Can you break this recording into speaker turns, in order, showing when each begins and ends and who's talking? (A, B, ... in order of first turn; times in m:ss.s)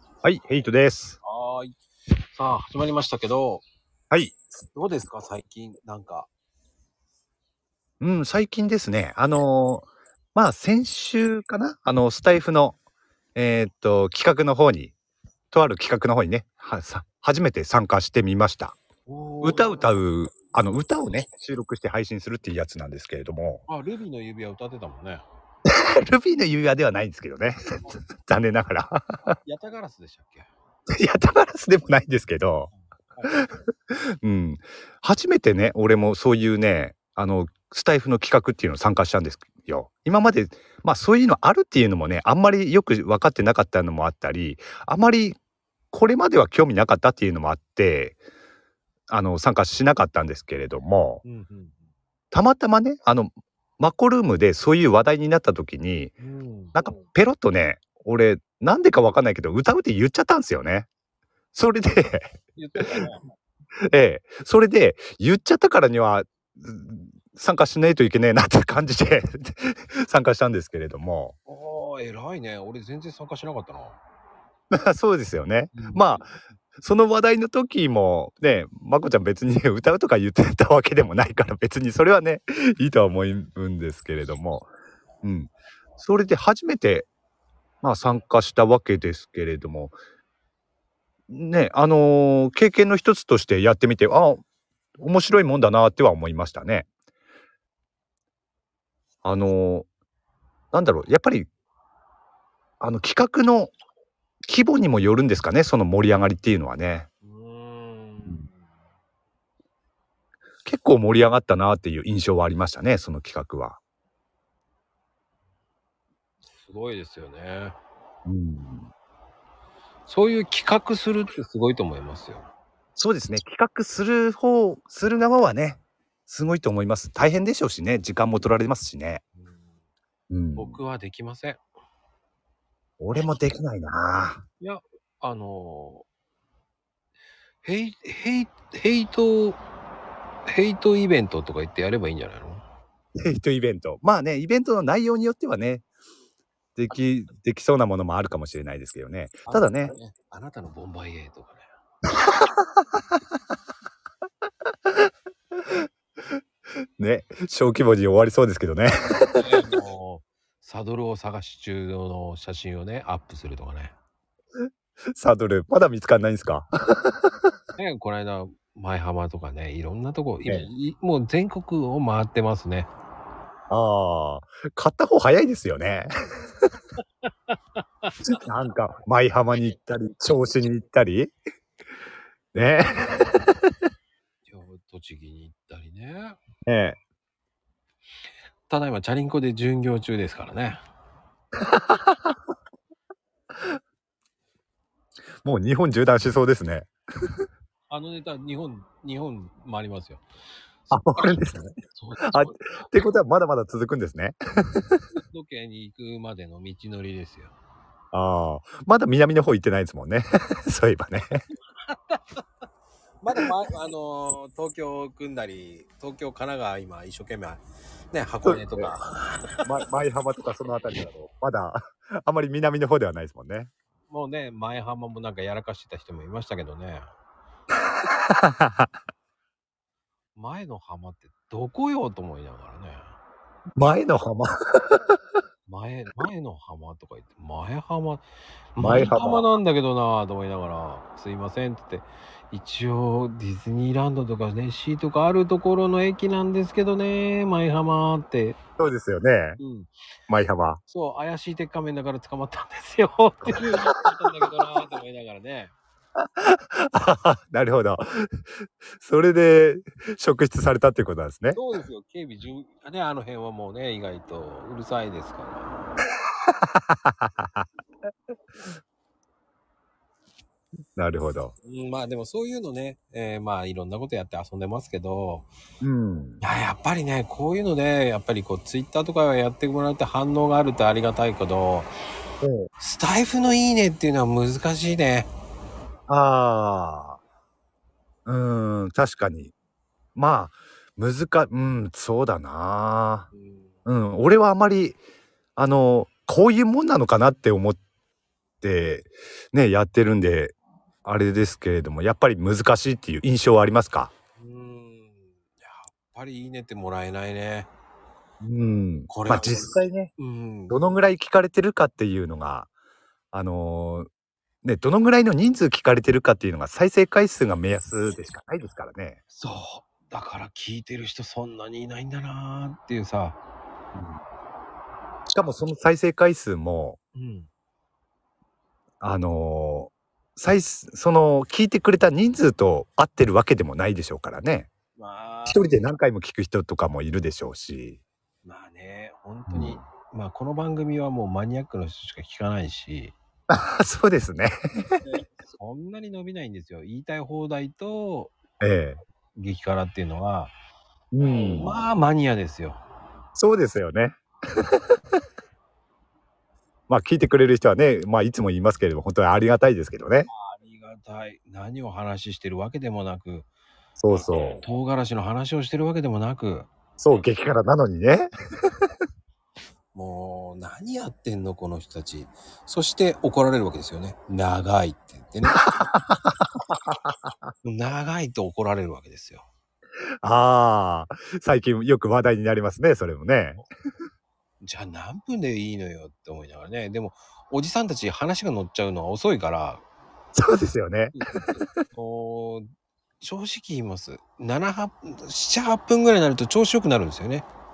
0:00.2-0:01.2 A
0:01.2-0:01.7 B
0:02.3-0:03.6 B
0:04.1-0:04.4 A
0:04.7-0:06.3 B
0:08.0-0:12.8 A
0:13.3-0:14.9 A
0:15.5-0:18.8 A
0:19.1-0:19.8 B
0:19.4-0:23.6 A
0:23.7-0:25.2 B
0:25.7-0:29.4 A
0:29.4-0:30.5 B
0:30.9-0:32.7 A
0:32.7-0:33.4 B
0:33.3-0:45.4 A
0:45.9-0:48.2 A
0:49.1-0:51.2 A
0:51.2-0:51.8 B
0:52.3-0:56.1 A
0:56.2-0:57.0 B
0:56.7-1:00.9 A
1:01.5-1:02.3 A
1:02.6-1:03.2 B
1:03.9-1:11.3 A
1:11.5-1:14.0 B
1:14.7-1:24.7 A
1:15.7-1:16.2 B
1:25.2-1:27.1 A
1:27.8-1:30.0 A
1:31.3-1:34.4 A
1:35.0-1:36.9 A
1:39.2-1:39.9 A
1:40.7-1:41.5 A
1:42.8-1:43.7 A
1:44.4-1:47.1 A
1:47.2-1:48.6 B
1:50.6-1:53.8 A
1:56.6-1:57.7 B
1:58.2-1:58.9 A
2:00.1-2:02.4 B
2:03.0-2:09.2 A
2:10.3-2:10.8 A
2:10.6-2:11.6 B
2:13.0-2:14.4 A
2:14.6-2:16.0 B
2:17.6-2:19.6 B
2:20.5-2:22.6 B
2:23.1-2:25.8 A
2:26.8-2:29.9 A
2:29.4-2:31.7 B
2:32.2-2:32.7 A
2:37.0-2:39.4 A
2:39.3-2:43.9 B
2:45.1-2:47.3 A
2:47.8-2:52.9 B
2:53.7-2:56.1 A
2:57.2-2:58.2 B
2:58.2-3:01.3 A
3:02.5-3:03.3 A
3:04.5-3:06.4 B
3:06.6-3:07.0 A
3:08.7-3:10.8 B
3:11.6-3:12.3 A
3:15.4-3:17.4 A
3:17.9-3:20.2 B
3:20.9-3:21.4 B
3:20.9-3:25.0 A
3:21.9-3:22.8 B
3:25.2-3:27.5 B
3:28.1-3:31.4 A
3:31.8-3:32.4 B
3:33.2-3:39.6 B
3:38.4-3:38.9 A
3:39.6-3:43.7 A
3:44.1-3:47.1 B
3:47.8-3:48.9 A
3:50.4-3:53.1 B
3:53.8-3:55.0 A
3:55.7-3:58.2 B
3:58.7-4:08.6 B
3:58.8-3:59.5 A
4:08.8-4:09.6 A
4:09.6-4:09.9 B
4:10.3-4:10.8 A
4:10.9-4:15.7 B
4:16.2-4:21.6 A
4:21.5-4:25.8 B
4:26.4-4:27.6 A
4:31.0-4:31.5 A
4:31.6-4:35.5 B
4:35.8-4:36.4 A
4:36.4-4:41.9 B
4:42.4-4:42.7 A
4:42.8-4:45.3 B
4:46.1-4:47.2 A
4:48.2-4:49.5 A
4:50.1-4:53.3 A
4:53.3-4:53.7 B
4:53.8-4:55.0 A
4:55.6-4:57.8 A
4:58.6-5:04.1 A
5:04.4-5:07.7 B
5:08.4-5:10.1 A
5:09.1-5:10.8 B
5:10.7-5:12.7 A
5:13.3-5:14.1 A
5:14.6-5:19.2 A
5:19.3-5:23.4 B
5:23.9-5:24.2 A
5:25.3-5:27.0 A
5:27.1-5:27.5 B
5:29.0-5:34.7 A
5:35.0-5:35.7 B
5:35.5-5:38.0 A
5:38.4-5:43.1 B
5:39.5-5:39.8 A
5:43.5-5:44.9 A
5:45.0-5:48.3 B
5:48.6-5:49.0 A
5:49.4-5:50.5 B
5:51.1-5:51.7 A
5:51.2-5:52.8 B
5:53.4-5:55.0 A
5:56.9-6:00.3 A
6:00.3-6:03.5 B
6:04.0-6:04.6 A
6:04.1-6:06.7 B
6:07.0-6:08.3 A
6:09.9-6:15.9 B
6:15.5-6:17.3 A
6:17.6-6:19.4 B
6:20.2-6:23.7 A
6:24.6-6:29.8 B
6:30.3-6:31.8 A
6:31.1-6:32.7 B
6:33.2-6:37.4 B